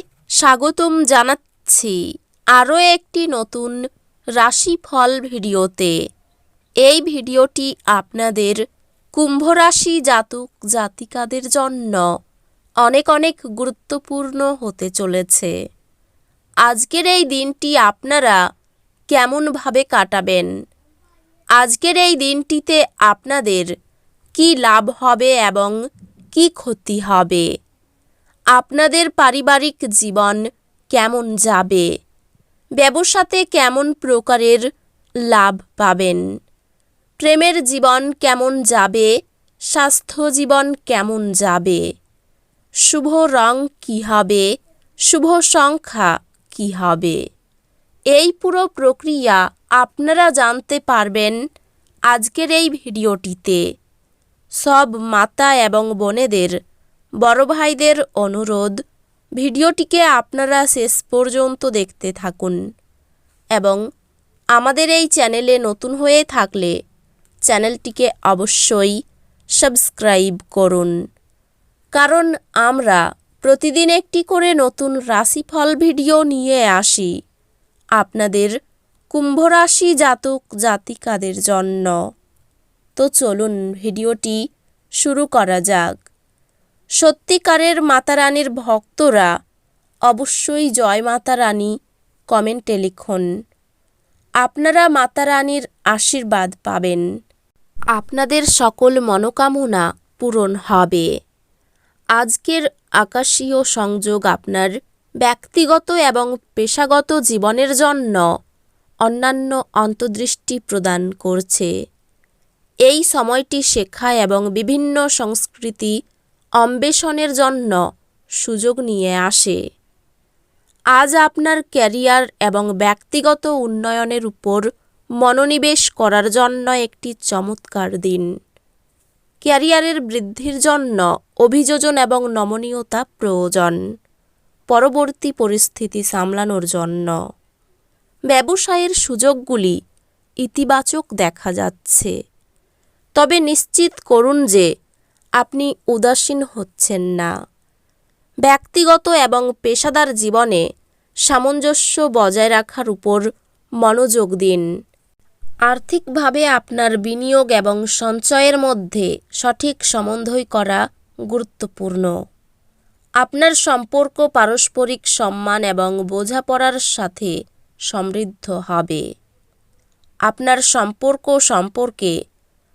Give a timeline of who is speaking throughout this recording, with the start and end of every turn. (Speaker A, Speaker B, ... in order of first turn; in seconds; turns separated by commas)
Speaker A: 0.4-2.0, Speaker A: 2.5-3.8, Speaker A: 4.4-5.9, Speaker A: 6.8-8.6, Speaker A: 9.2-12.0, Speaker A: 12.8-15.5, Speaker A: 16.6-18.4, Speaker A: 19.1-20.5, Speaker A: 21.6-23.7, Speaker A: 24.3-25.7, Speaker A: 26.3-27.4, Speaker A: 28.5-30.4, Speaker A: 30.9-31.9, Speaker A: 32.8-34.6, Speaker A: 35.3-36.2, Speaker A: 37.2-39.1, Speaker A: 39.7-41.8, Speaker A: 42.9-44.5, Speaker A: 45.1-47.2, Speaker A: 48.1-51.4, Speaker A: 52.1-53.6, Speaker A: 54.6-56.5, Speaker A: 57.2-58.8, Speaker A: 59.4-62.6, Speaker A: 64.5-66.7, Speaker A: 67.5-69.0, Speaker A: 69.6-70.9, Speaker A: 71.9-77.1, Speaker A: 78.0-78.5, Speaker A: 79.1-82.0, Speaker A: 83.0-84.4, Speaker A: 85.0-85.9, Speaker A: 87.0-89.3, Speaker A: 90.1-91.7, Speaker A: 92.3-93.3, Speaker A: 94.4-97.0, Speaker A: 98.0-101.1, Speaker A: 102.2-104.7, Speaker A: 105.2-108.2, Speaker A: 109.0-111.7, Speaker A: 112.9-115.9, Speaker A: 116.6-117.8, Speaker A: 118.4-119.6, Speaker A: 120.9-124.6, Speaker A: 125.2-128.3, Speaker A: 129.4-133.8, Speaker A: 134.7-137.1, Speaker A: 138.3-139.8, Speaker A: 140.4-142.1, Speaker A: 143.2-144.7, Speaker A: 145.4-147.3, Speaker A: 148.4-150.6, Speaker A: 151.3-153.2, Speaker A: 153.8-154.6, Speaker A: 155.7-162.1, Speaker A: 163.2-167.3, Speaker A: 167.9-169.0, Speaker A: 170.3-172.1